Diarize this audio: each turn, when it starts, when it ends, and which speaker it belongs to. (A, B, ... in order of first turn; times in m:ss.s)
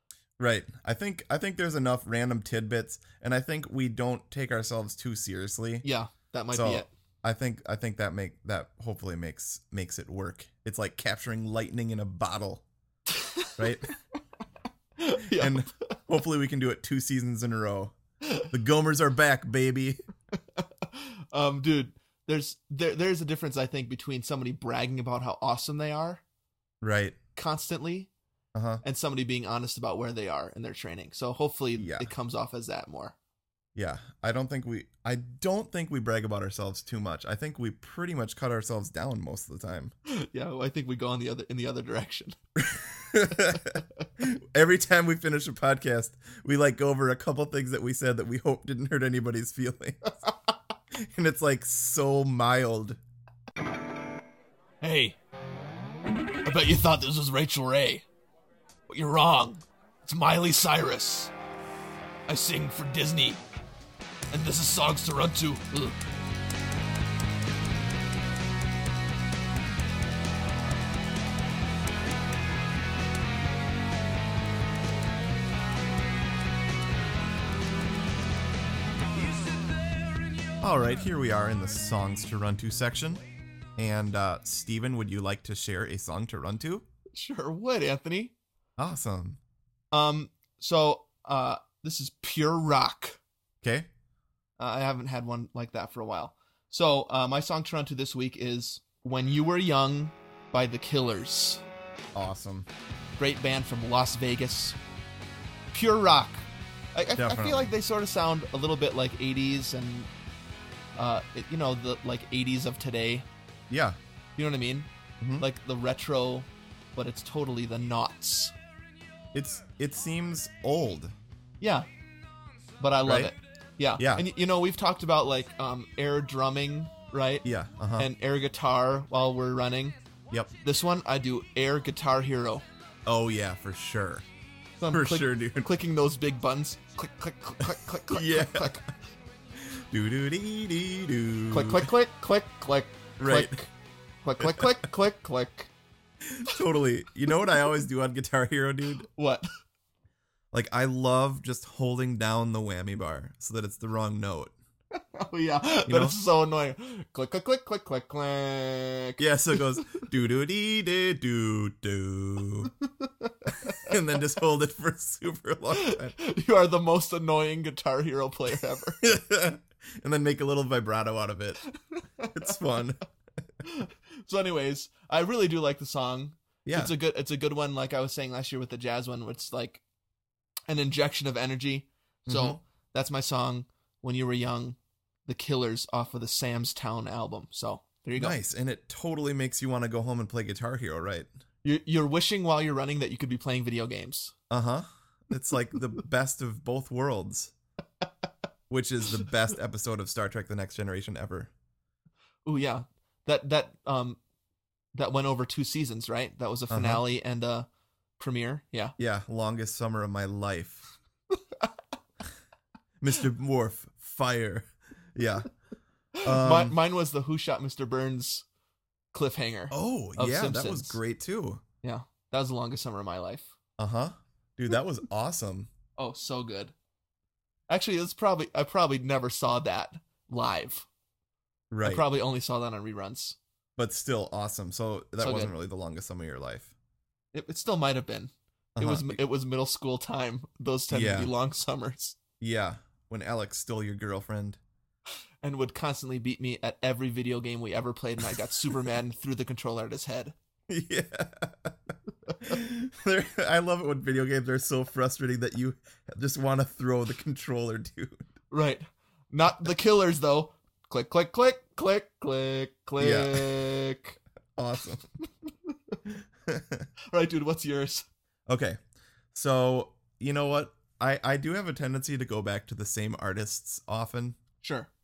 0:00.4-0:05.9 A
0:05.8-0:06.9 B
0:06.5-0:12.6 A
0:13.1-0:13.6 B
0:13.6-0:13.9 A
0:15.0-0:15.7 B
0:15.3-0:17.9 A
0:18.5-0:20.0 A
0:20.6-0:26.2 B
0:26.8-0:27.2 A
0:27.4-0:28.1 B
0:28.6-0:28.8 A
0:28.8-0:33.1 B
0:31.8-0:32.1 A
0:33.7-0:39.9 A
0:40.1-0:42.4 B
0:42.6-0:50.2 A
0:50.9-0:53.0 A
0:54.8-0:55.2 B
0:56.4-0:58.0 B
0:58.9-1:01.3 B
1:02.3-1:03.4 B
1:04.3-1:06.0 B
1:20.6-1:23.2 A
1:23.8-1:26.8 A
1:27.1-1:28.3 B
1:28.8-1:29.4 A
1:29.9-1:33.2 B
1:33.6-1:33.9 A
1:34.6-1:41.6 B
1:42.1-1:42.7 A
1:43.2-1:44.8 B
1:45.7-1:46.4 B
1:46.9-1:50.1 B
1:47.2-1:47.7 A
1:51.0-1:53.3 B
1:53.7-1:54.0 A
1:54.4-1:58.5 B
1:55.2-1:55.5 A
1:59.3-2:01.1 A
2:01.6-2:01.9 B
2:02.8-2:07.4 B
2:03.0-2:03.3 A
2:04.0-2:04.3 A
2:07.4-2:08.1 A
2:08.0-2:10.0 B
2:10.6-2:12.6 B
2:13.1-2:14.2 A
2:14.8-2:18.8 B
2:14.9-2:15.7 A
2:18.1-2:18.8 A
2:19.6-2:21.9 A
2:21.5-2:23.7 B
2:23.2-2:23.6 A
2:24.2-2:25.7 B
2:24.4-2:24.7 A
2:26.2-2:29.1 A
2:29.1-2:29.5 B
2:30.5-2:34.5 A
2:35.2-2:39.6 B
2:35.9-2:36.2 A
2:39.2-2:42.7 A
2:43.0-2:43.9 B
2:43.6-2:46.1 A
2:45.7-2:49.0 B
2:49.0-2:51.6 A
2:52.0-2:52.4 B
2:52.3-2:53.0 A
2:53.6-2:59.8 B
2:56.7-2:56.9 A
3:00.7-3:08.4 B
3:02.3-3:02.6 A
3:08.2-3:11.3 A
3:11.6-3:14.3 B
3:14.5-3:17.5 A
3:18.7-3:21.5 A
3:22.4-3:24.2 B
3:24.9-3:27.7 B
3:26.7-3:27.0 A
3:28.2-3:29.0 B
3:29.0-3:30.9 A
3:33.0-3:35.5 A
3:36.2-3:38.4 B
3:36.2-3:36.8 A
3:39.1-3:41.0 B
3:39.7-3:41.6 A
3:41.8-3:43.6 B
3:43.8-3:45.7 A
3:46.0-3:46.7 B
3:47.7-3:50.9 B
3:51.7-3:52.0 A
3:51.8-3:53.4 B
3:53.8-3:56.7 A
3:55.2-3:55.5 B
3:57.3-4:02.2 B
3:58.8-3:59.2 A
4:00.9-4:01.3 A
4:02.4-4:04.6 A
4:05.4-4:10.3 B
4:10.7-4:18.2 A
4:18.5-4:24.2 B
4:23.0-4:23.6 A
4:24.6-4:25.1 A
4:25.7-4:26.0 B
4:26.1-4:26.9 A
4:27.1-4:28.0 B
4:28.5-4:28.8 A
4:29.3-4:34.4 A
4:34.6-4:34.9 B